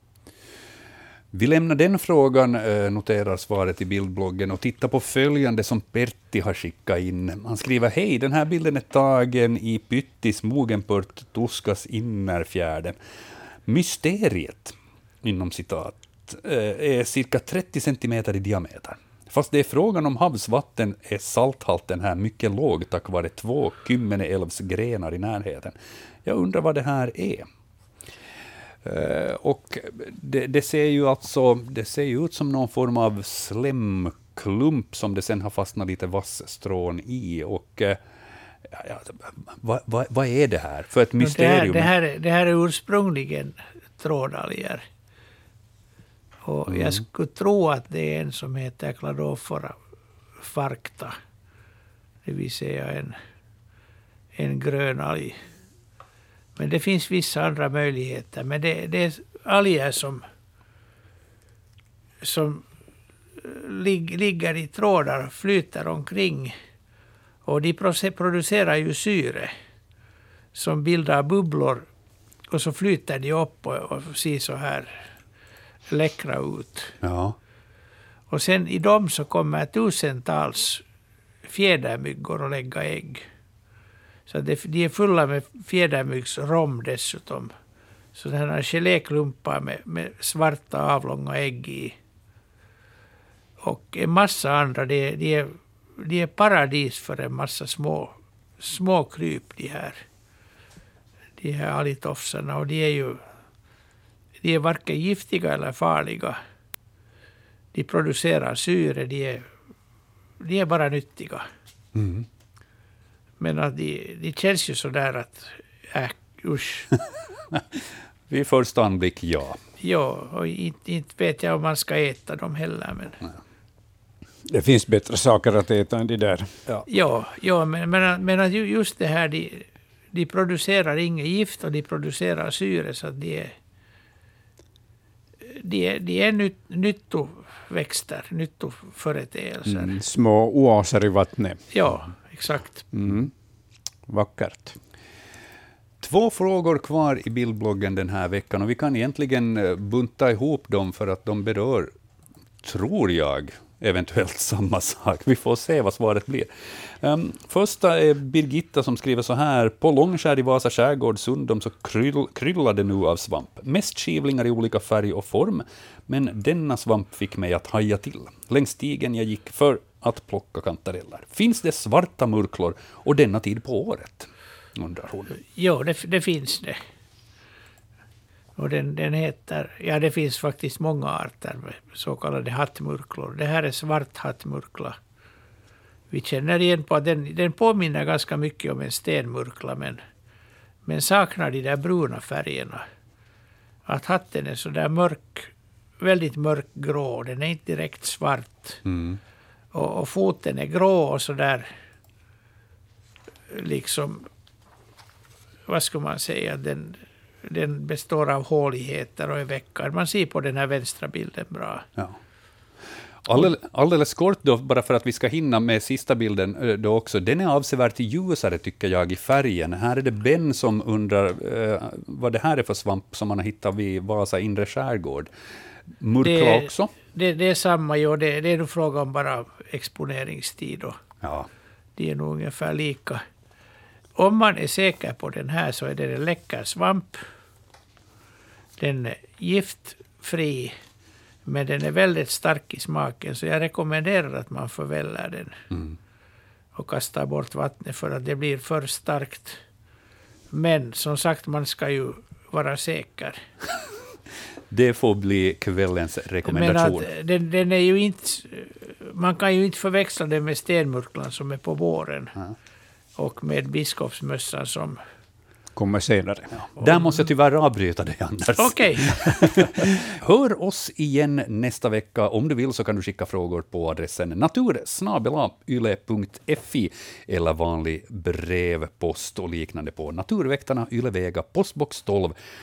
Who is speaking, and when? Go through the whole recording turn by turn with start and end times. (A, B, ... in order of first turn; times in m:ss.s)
0:01.3-0:13.0 A
0:13.7-0:27.4 A
0:28.8-0:38.0 A
0:38.7-0:41.9 A
0:41.2-0:44.8 B
0:46.4-0:49.8 B
0:46.7-0:47.0 A
0:50.4-0:51.2 B
0:52.2-0:53.2 B
0:54.4-0:55.4 B
0:56.6-1:00.2 B
1:02.2-1:02.6 B
1:03.4-1:06.5 B
1:07.5-1:09.5 B
1:10.6-1:11.9 B
1:12.5-1:15.0 B
1:15.9-1:16.9 B
1:17.0-1:17.4 A
1:18.3-1:20.8 B
1:21.4-1:23.2 B
1:24.3-1:27.5 B
1:28.2-1:32.0 B
1:33.6-1:40.0 B
1:41.4-1:43.2 B
1:44.4-1:46.4 B
1:47.7-1:49.5 B
1:50.4-1:51.5 B
1:52.0-1:52.3 A
1:53.4-1:56.9 B
1:57.5-1:59.6 A
1:59.8-2:03.2 B
2:04.5-2:06.5 C
2:06.9-2:13.5 B
2:15.4-2:20.0 B
2:19.7-2:21.6 C
2:21.7-2:22.8 B
2:22.9-2:23.3 C
2:24.1-2:24.8 C
2:26.0-2:31.9 A
2:32.6-2:55.4 A
2:55.6-2:56.8 B
2:58.6-3:05.0 B
3:06.1-3:10.0 B
3:10.9-3:12.8 B
3:13.9-3:18.8 B
3:18.9-3:19.2 A
3:19.7-3:21.7 B
3:23.5-3:24.2 B
3:25.7-3:31.8 B
3:33.2-3:45.3 A
3:46.0-3:46.9 A
3:46.2-3:51.0 B
3:51.2-3:51.5 A
3:52.0-3:53.2 B
3:54.2-3:57.2 B
3:58.8-4:00.7 B
4:01.5-4:05.6 B
4:05.7-4:06.0 A
4:06.8-4:09.6 B
4:10.5-4:13.4 B
4:14.7-4:17.1 A
4:16.5-4:22.4 B
4:23.2-4:25.0 B
4:25.8-4:26.6 C
4:26.6-4:42.4 A
4:28.6-4:29.3 B